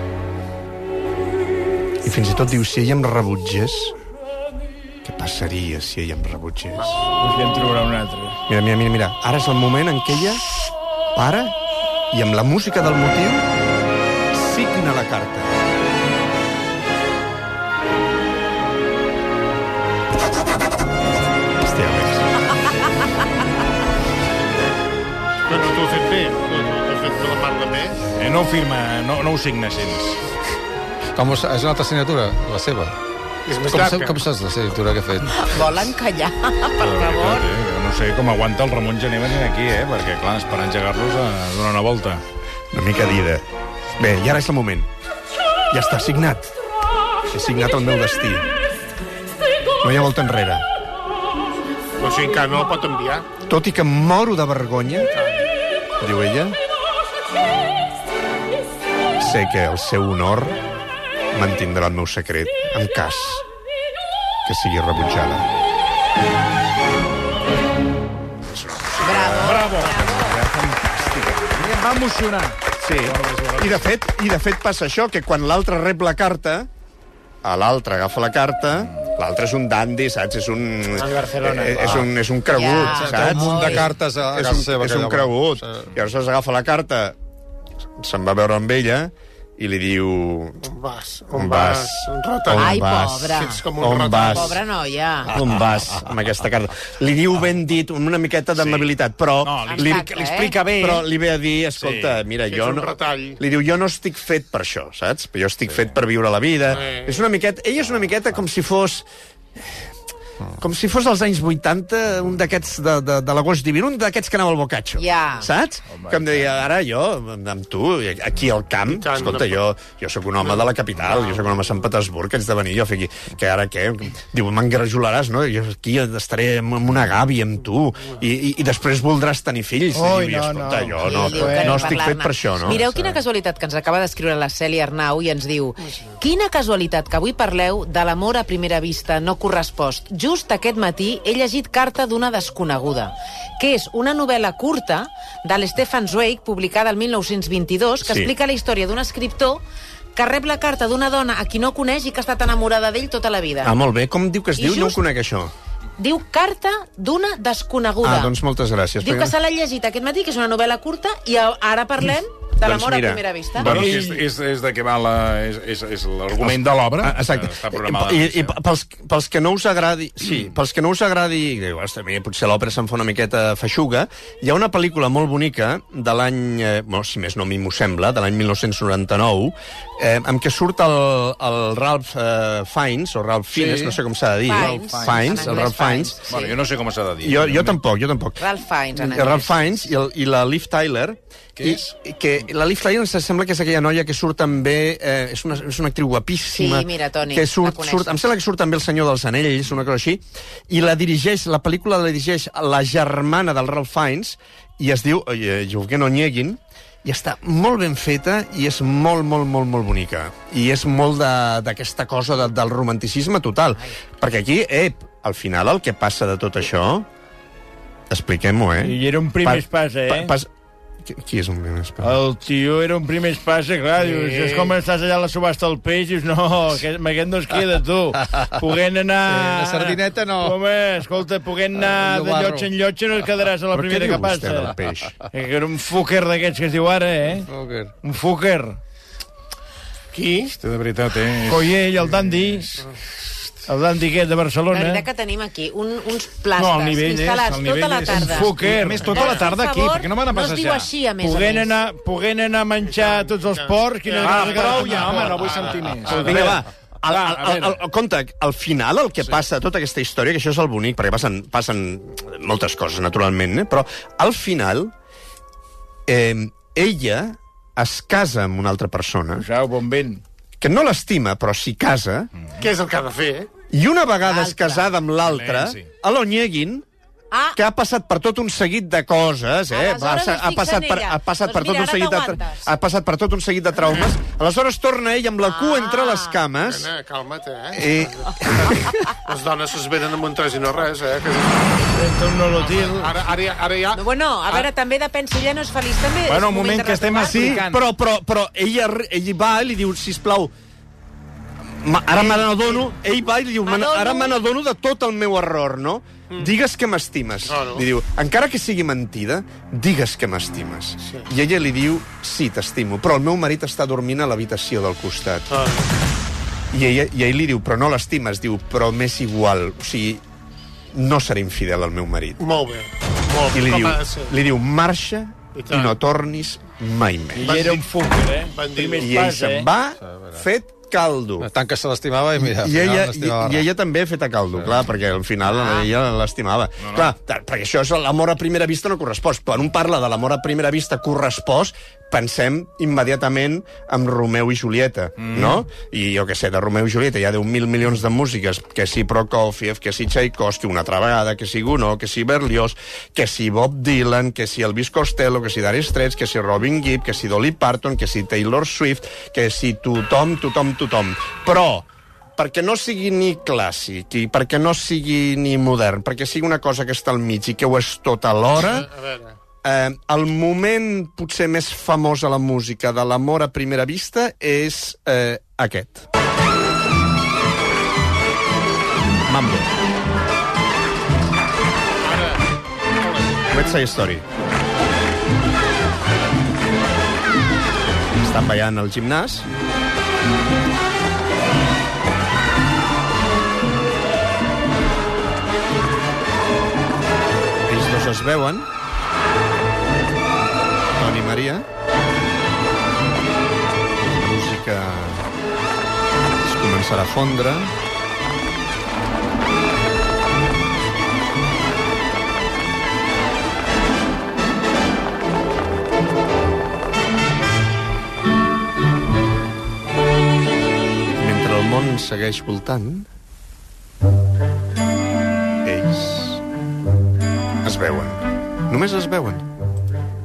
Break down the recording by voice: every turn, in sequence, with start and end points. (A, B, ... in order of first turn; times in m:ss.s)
0:02.0-0:04.0 A
0:05.0-0:07.0 A
0:06.8-0:07.0 B
0:07.2-0:08.4 C
0:08.5-0:10.4 A
0:11.1-0:11.6 A
0:12.1-0:13.5 A
0:14.3-0:15.5 A
0:21.6-0:22.3 A
0:25.5-0:28.0 B
0:28.2-0:30.2 D
0:31.1-0:33.0 E
0:33.5-0:34.2 B
0:33.7-0:35.8 E
0:35.3-0:37.5 F
0:36.8-0:42.2 D
0:42.7-0:43.4 A
0:44.0-0:44.9 A
0:45.7-0:46.5 A
0:47.3-0:48.5 A
0:49.8-0:50.6 A
0:52.0-0:53.3 B
0:53.5-0:55.1 A
0:55.0-0:55.5 B
0:56.0-0:56.6 A
0:59.2-1:00.6 A
1:01.3-1:03.4 A
1:04.4-1:05.5 A
1:08.5-1:11.6 A
1:09.0-1:10.4 F
1:09.4-1:14.0 D
1:12.8-1:16.7 A
1:17.4-1:27.2 A
1:21.1-1:21.8 C
1:22.5-1:23.9 F
1:22.8-1:25.9 E
1:28.0-1:30.6 A
1:30.6-1:34.6 B
1:31.3-1:34.6 A
1:32.5-1:33.6 F
1:34.2-1:35.3 F
1:35.2-1:40.1 A
1:38.6-1:38.9 D
1:39.4-1:41.1 D
1:39.7-1:40.5 F
1:40.6-1:49.0 A
1:41.8-1:42.2 D
1:42.5-1:43.4 B
1:46.7-1:47.2 B
1:50.6-2:12.9 A
1:55.0-1:55.5 F
1:55.9-1:56.2 C
1:58.9-1:59.6 B
2:00.4-2:01.6 B
2:09.9-2:12.0 C
2:11.0-2:29.6 F
2:15.9-2:16.1 B
2:28.0-2:28.3 A
2:30.1-2:33.8 F
2:33.6-2:35.5 A
2:34.6-2:35.0 F
2:36.0-2:38.4 F
2:38.0-2:39.4 A
2:39.0-2:43.7 F
2:42.6-2:44.1 A
2:43.6-2:48.6 D
2:46.4-3:06.2 A
3:03.6-3:03.9 E
3:04.4-3:06.5 F
3:05.1-3:05.4 D
3:06.3-3:07.8 D
3:07.2-3:08.4 A
3:08.4-3:09.8 F
3:08.9-3:37.1 A
3:11.6-3:11.9 D
3:16.5-3:18.3 F
3:38.1-3:40.5 A
3:38.8-3:40.3 C
3:41.0-3:42.2 A
3:42.0-3:54.7 C
3:44.0-3:44.7 B
3:49.3-3:50.6 E
3:51.8-3:52.7 E
3:53.7-3:55.1 A
3:55.3-3:57.5 C
3:57.5-3:57.9 E
3:58.0-3:58.8 C
4:00.1-4:00.5 B
4:00.6-4:02.7 D
4:01.4-4:02.7 C
4:03.7-4:05.0 C
4:04.7-4:11.7 F
4:06.6-4:10.9 D
4:08.1-4:09.1 C
4:09.0-4:09.4 B
4:11.2-4:16.5 C
4:12.8-4:16.5 B
4:14.2-4:17.8 D
4:16.1-4:24.9 A
4:26.1-4:29.5 A
4:29.4-4:30.2 C
4:30.6-4:32.3 A
4:32.6-4:33.5 B
4:33.7-4:36.8 A
4:34.2-4:34.9 F
4:35.2-4:35.9 D
4:37.3-4:37.6 F
4:37.6-4:46.9 A
4:39.7-4:42.7 F
4:45.4-4:46.4 F
4:46.6-4:52.0 B
4:47.7-4:49.1 A
4:52.0-4:53.1 C
4:52.6-4:54.7 B
4:53.9-4:57.6 F
4:56.3-4:57.8 D
4:57.2-5:00.5 A
5:01.8-5:15.5 A
5:03.6-5:04.4 F
5:07.4-5:07.9 B
5:11.0-5:11.3 B
5:15.5-5:15.9 B
5:16.7-5:20.2 A
5:20.9-5:22.4 A
5:22.4-5:24.4 B
5:23.5-5:27.8 A
5:25.6-5:26.0 B
5:27.4-5:29.7 C
5:27.4-5:27.8 B
5:28.5-5:29.1 B
5:29.0-5:31.5 A
5:30.0-5:30.4 E
5:31.4-5:33.7 E
5:32.4-6:08.9 A
5:35.5-5:35.9 F
5:36.8-5:37.1 D
5:45.2-5:45.6 D
6:08.6-6:09.4 B
6:09.6-6:16.1 A
6:19.2-6:19.7 A
6:22.0-6:23.6 B
6:23.5-6:24.2 A
6:27.8-6:29.5 A
6:37.6-6:38.7 A
6:40.9-6:41.6 A
6:44.0-6:45.3 A
6:46.4-6:47.7 A
7:01.2-7:03.1 A
7:05.6-7:06.4 A
7:07.6-7:09.5 A